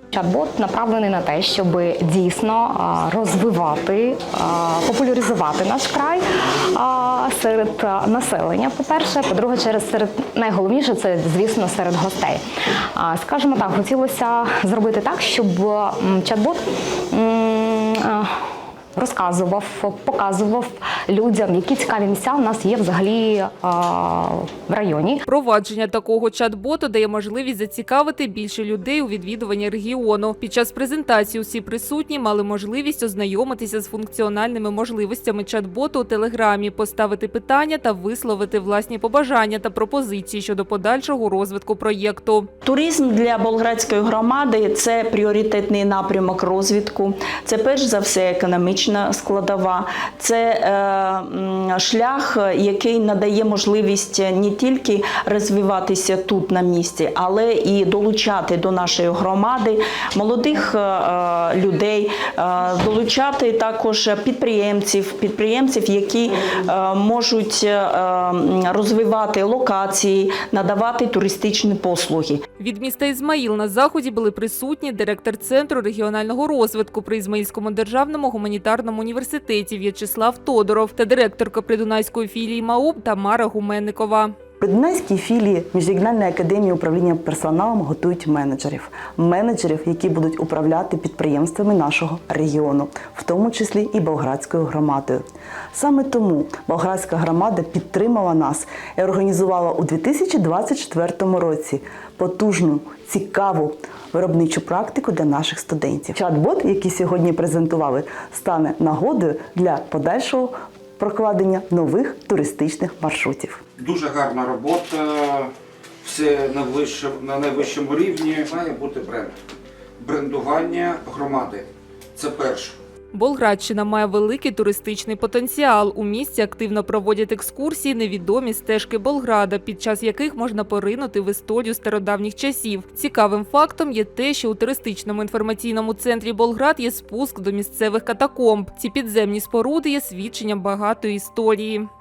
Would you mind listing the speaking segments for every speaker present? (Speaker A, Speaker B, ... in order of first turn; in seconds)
Speaker A: 0.1-12.4, 13.0-16.6, 17.1-18.3, 19.0-25.2
Speaker B: 25.3-42.5, 72.6-84.3, 123.1-141.9
Speaker C: 42.6-72.4
Speaker D: 84.6-95.1, 96.5-97.4, 99.8-101.0, 102.5-103.3, 104.2-110.1, 111.0-113.4
Speaker E: 113.8-115.5, 116.0-119.3, 120.0-121.6, 122.2-122.7